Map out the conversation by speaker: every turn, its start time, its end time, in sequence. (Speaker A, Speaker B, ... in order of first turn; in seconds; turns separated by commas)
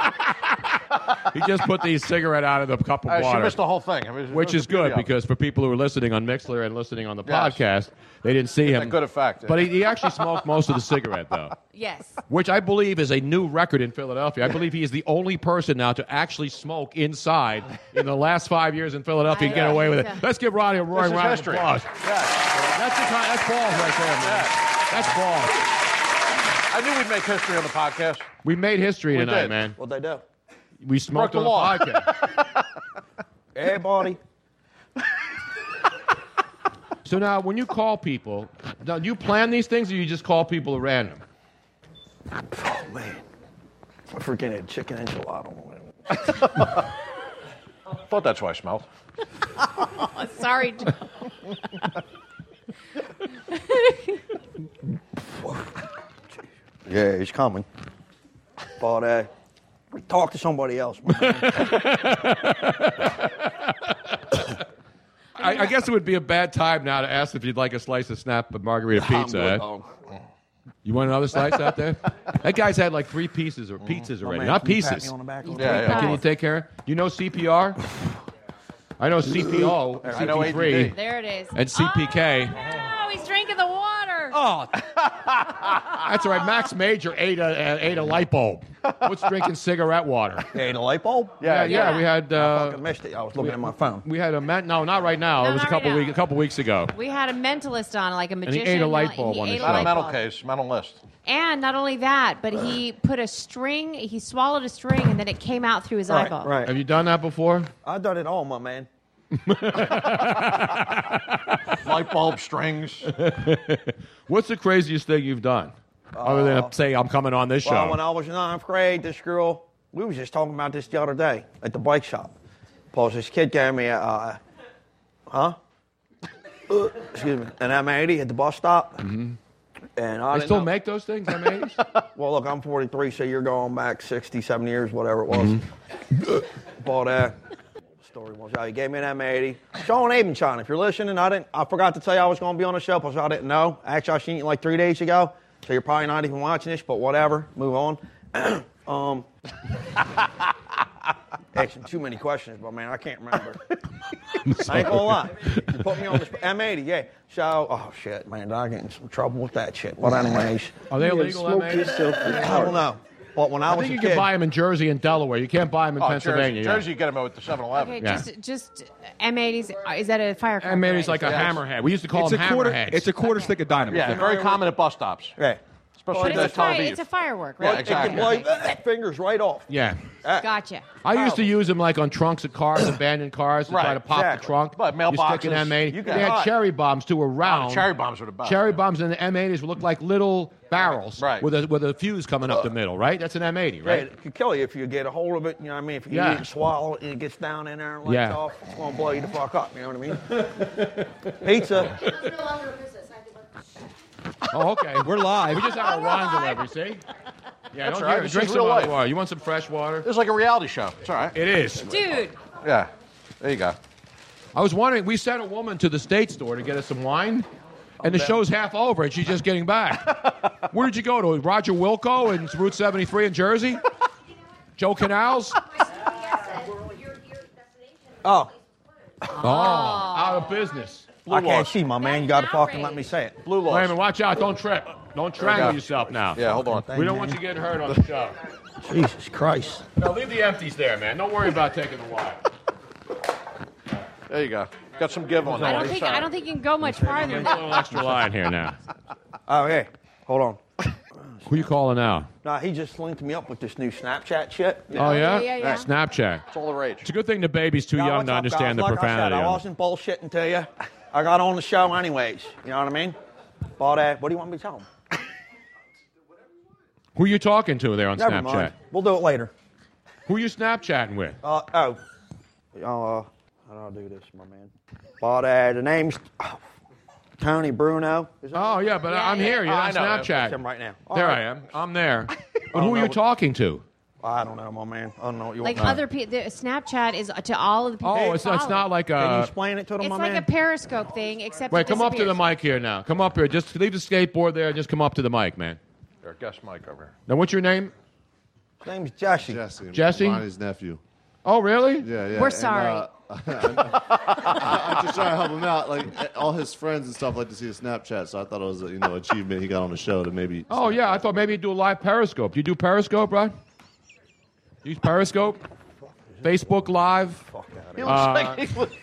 Speaker A: 1.3-3.6, Speaker B: 3.1-5.1, Speaker A: 4.3-11.5, Speaker B: 7.2-7.6, Speaker B: 8.6-9.7, Speaker C: 11.7-12.2, Speaker A: 12.3-21.9, Speaker C: 19.3-20.2, Speaker B: 19.5-19.8, Speaker B: 20.9-22.7, Speaker A: 22.6-25.6, Speaker B: 24.2-24.5, Speaker B: 26.7-28.3, Speaker A: 28.4-29.8, Speaker B: 29.1-29.6, Speaker D: 29.8-30.2, Speaker A: 30.8-32.1, Speaker B: 31.1-32.4, Speaker D: 33.5-34.2, Speaker A: 37.0-41.2, Speaker D: 42.5-43.2, Speaker D: 44.1-45.8, Speaker B: 48.1-48.9, Speaker C: 49.9-51.0, Speaker C: 53.5-54.1, Speaker D: 55.3-55.7, Speaker D: 56.9-57.6, Speaker D: 58.8-59.3, Speaker D: 59.9-61.8, Speaker A: 61.1-63.9, Speaker A: 65.4-69.6, Speaker C: 65.4-65.7, Speaker D: 68.9-69.9, Speaker A: 70.8-75.1, Speaker D: 74.2-76.2, Speaker C: 75.4-76.2, Speaker B: 75.6-76.1, Speaker A: 75.6-77.8, Speaker A: 79.0-80.9, Speaker D: 79.5-80.7, Speaker B: 80.1-80.9, Speaker C: 80.8-84.4, Speaker A: 81.5-82.6, Speaker B: 84.8-86.0, Speaker A: 85.9-90.5, Speaker D: 90.5-91.5, Speaker B: 91.4-92.0, Speaker A: 91.4-92.8, Speaker C: 91.7-92.1, Speaker D: 92.3-94.0, Speaker A: 93.3-96.9, Speaker C: 95.4-96.2, Speaker C: 96.9-100.2, Speaker A: 98.5-99.9, Speaker B: 99.6-101.0, Speaker C: 101.2-106.5, Speaker D: 106.1-106.7, Speaker A: 106.7-107.7, Speaker D: 107.8-108.9, Speaker A: 109.4-111.2, Speaker B: 111.8-113.1, Speaker A: 113.0-118.0, Speaker D: 116.1-116.7, Speaker D: 117.6-122.3, Speaker D: 122.9-124.4, Speaker D: 125.3-125.6, Speaker D: 126.7-129.0, Speaker A: 129.0-129.4, Speaker D: 130.0-130.7, Speaker A: 130.3-131.8, Speaker D: 132.1-135.6, Speaker A: 135.3-135.6, Speaker D: 136.2-137.4, Speaker D: 138.0-149.3, Speaker D: 151.5-153.6, Speaker A: 154.4-155.7, Speaker D: 154.6-160.8, Speaker A: 160.9-162.7, Speaker E: 161.0-162.2, Speaker D: 161.9-164.3, Speaker A: 163.7-166.9, Speaker B: 166.0-168.1, Speaker C: 167.7-171.4, Speaker A: 168.0-168.2, Speaker A: 170.6-173.2, Speaker B: 171.2-171.6, Speaker E: 172.1-174.3, Speaker C: 173.2-173.5, Speaker B: 173.9-175.4, Speaker D: 173.9-174.7, Speaker D: 175.4-176.9, Speaker B: 176.0-177.0, Speaker C: 176.1-178.5, Speaker B: 177.6-178.3, Speaker D: 177.6-179.7, Speaker A: 179.7-180.0, Speaker C: 180.4-180.9, Speaker A: 181.0-187.9, Speaker D: 181.1-181.5, Speaker B: 183.7-184.0, Speaker D: 184.1-184.5, Speaker B: 184.8-186.3, Speaker D: 185.9-186.5, Speaker B: 187.4-188.8, Speaker A: 188.4-194.1, Speaker B: 191.2-191.4, Speaker D: 193.8-200.4, Speaker A: 196.1-196.4, Speaker A: 198.0-198.4, Speaker D: 201.4-202.0, Speaker A: 204.5-207.0, Speaker E: 205.0-205.8, Speaker C: 205.8-206.6, Speaker A: 207.7-210.1, Speaker B: 207.8-208.9, Speaker B: 210.0-211.3, Speaker A: 211.3-212.2, Speaker C: 211.9-212.4, Speaker B: 212.6-212.9, Speaker B: 213.4-213.8, Speaker A: 214.5-217.5, Speaker A: 218.0-223.8, Speaker D: 218.0-218.4, Speaker A: 224.8-225.6, Speaker D: 228.2-228.5, Speaker C: 229.3-230.5, Speaker A: 229.4-231.7, Speaker D: 231.3-233.4, Speaker C: 232.0-233.1, Speaker B: 233.4-233.9, Speaker A: 233.7-238.3, Speaker B: 235.4-235.8, Speaker B: 236.3-236.9, Speaker D: 236.4-237.4, Speaker D: 238.8-239.8, Speaker A: 240.0-242.4, Speaker B: 244.3-246.3, Speaker A: 245.4-246.1, Speaker C: 245.6-247.9, Speaker D: 246.9-248.1, Speaker A: 246.9-248.8, Speaker D: 249.5-250.6, Speaker D: 251.2-251.4, Speaker A: 251.4-252.3, Speaker D: 252.4-255.2, Speaker A: 254.9-256.4, Speaker C: 255.0-255.9, Speaker B: 256.5-257.1, Speaker A: 257.0-259.6, Speaker D: 257.9-263.1, Speaker D: 263.8-264.9, Speaker A: 267.1-268.7, Speaker D: 268.1-269.5, Speaker A: 270.3-271.4, Speaker D: 271.4-272.0, Speaker D: 272.8-276.6, Speaker D: 277.4-278.8, Speaker A: 278.5-280.6, Speaker C: 279.1-279.6, Speaker B: 279.4-280.3, Speaker D: 280.2-281.4, Speaker A: 281.1-283.8, Speaker D: 282.7-283.2, Speaker D: 284.2-286.0, Speaker C: 285.6-288.9, Speaker A: 288.0-289.5, Speaker D: 289.2-290.5, Speaker C: 290.0-292.4, Speaker A: 291.7-295.8, Speaker B: 296.2-297.1, Speaker A: 297.3-297.9, Speaker D: 298.8-299.6, Speaker F: 299.4-301.0, Speaker A: 299.9-300.4, Speaker A: 301.4-302.1, Speaker F: 302.0-311.3, Speaker C: 302.4-303.1, Speaker B: 304.0-304.7, Speaker A: 310.7-313.5, Speaker A: 314.8-315.6, Speaker A: 316.4-317.4, Speaker D: 317.5-318.3, Speaker B: 318.0-318.9, Speaker A: 318.0-318.7